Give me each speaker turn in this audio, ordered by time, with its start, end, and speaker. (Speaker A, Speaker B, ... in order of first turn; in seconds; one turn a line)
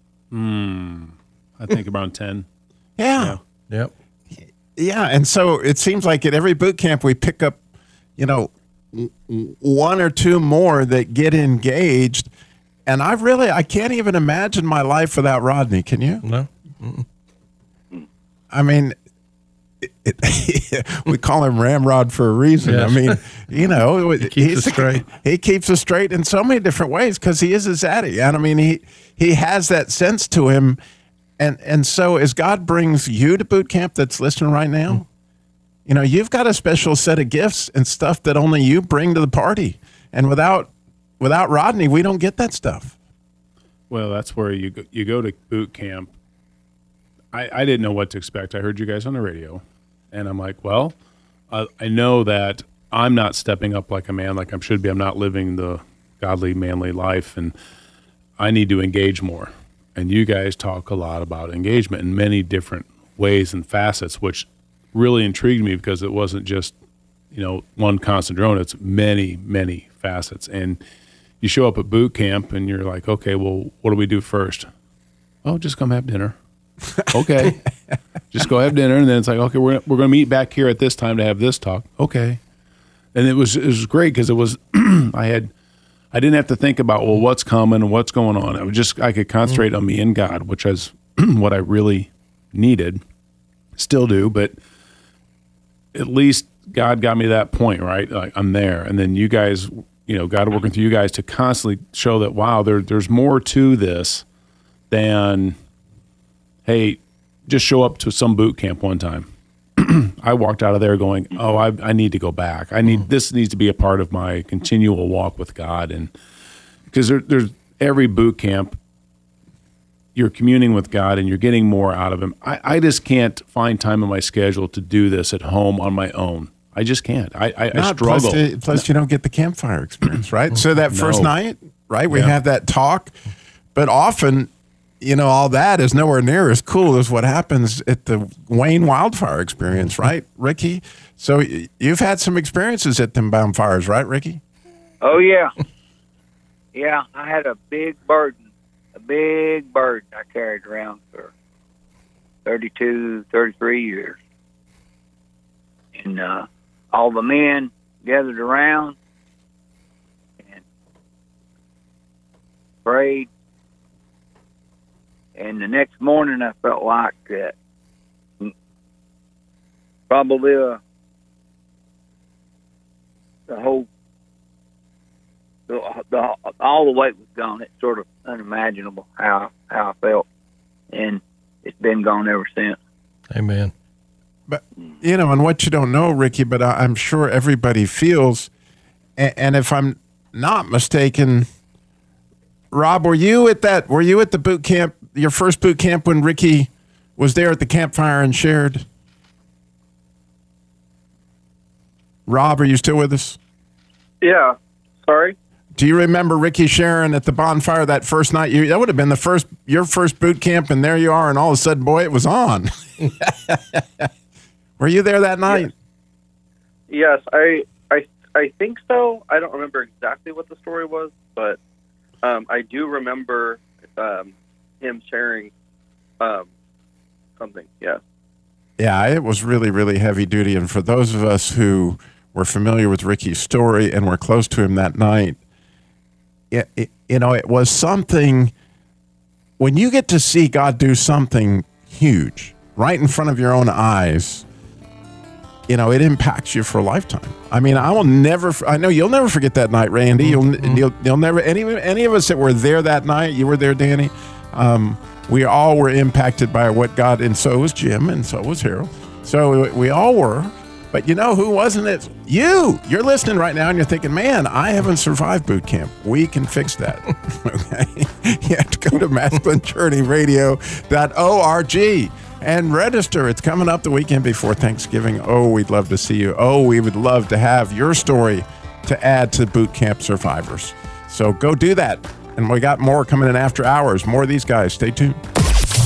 Speaker A: 0.3-2.5
Speaker B: 3.0-3.4
Speaker B: 4.4-7.6
Speaker B: 8.2-12.3
Speaker B: 12.9-16.2
Speaker C: 16.2-17.1
Speaker B: 18.5-18.9
Speaker B: 19.8-30.8
Speaker C: 22.6-23.2
Speaker C: 24.2-25.1
Speaker B: 31.4-35.0
Speaker B: 35.9-42.9
Speaker A: 43.9-46.1
Speaker A: 47.3-50.9
Speaker A: 51.5-57.5
Speaker A: 58.4-66.8
Speaker A: 67.3-70.8
Speaker A: 71.4-74.7
Speaker A: 75.4-76.4
Speaker A: 77.1-77.6
Speaker A: 78.3-82.4
Speaker A: 83.1-85.5
Speaker A: 86.1-93.0
Speaker A: 93.8-94.6
Speaker A: 95.9-104.2
Speaker A: 104.9-105.6
Speaker A: 106.6-116.1
Speaker A: 116.9-118.8
Speaker A: 120.1-128.8
Speaker B: 127.7-133.1
Speaker A: 130.8-131.3
Speaker A: 132.1-132.3
Speaker B: 133.7-134.5
Speaker B: 135.0-144.4
Speaker D: 145.0-145.5
Speaker D: 146.7-148.4
Speaker D: 148.9-151.3
Speaker D: 152.4-154.2
Speaker D: 155.9-158.9
Speaker D: 162.8-163.3
Speaker D: 165.4-167.6
Speaker D: 170.1-170.8
Speaker D: 173.5-173.9
Speaker D: 175.7-180.2
Speaker D: 180.9-182.8
Speaker C: 183.3-183.7
Speaker B: 184.5-188.5
Speaker B: 189.2-191.5
Speaker B: 192.7-198.9
Speaker B: 202.3-203.4
Speaker E: 204.2-205.4
Speaker B: 205.7-214.1
Speaker B: 214.8-215.7
Speaker E: 216.9-221.6
Speaker E: 222.2-225.5
Speaker E: 226.2-226.5
Speaker E: 227.4-228.0
Speaker B: 228.8-235.4
Speaker B: 236.5-238.5
Speaker B: 239.6-244.4
Speaker B: 245.7-285.2
Speaker C: 250.2-250.8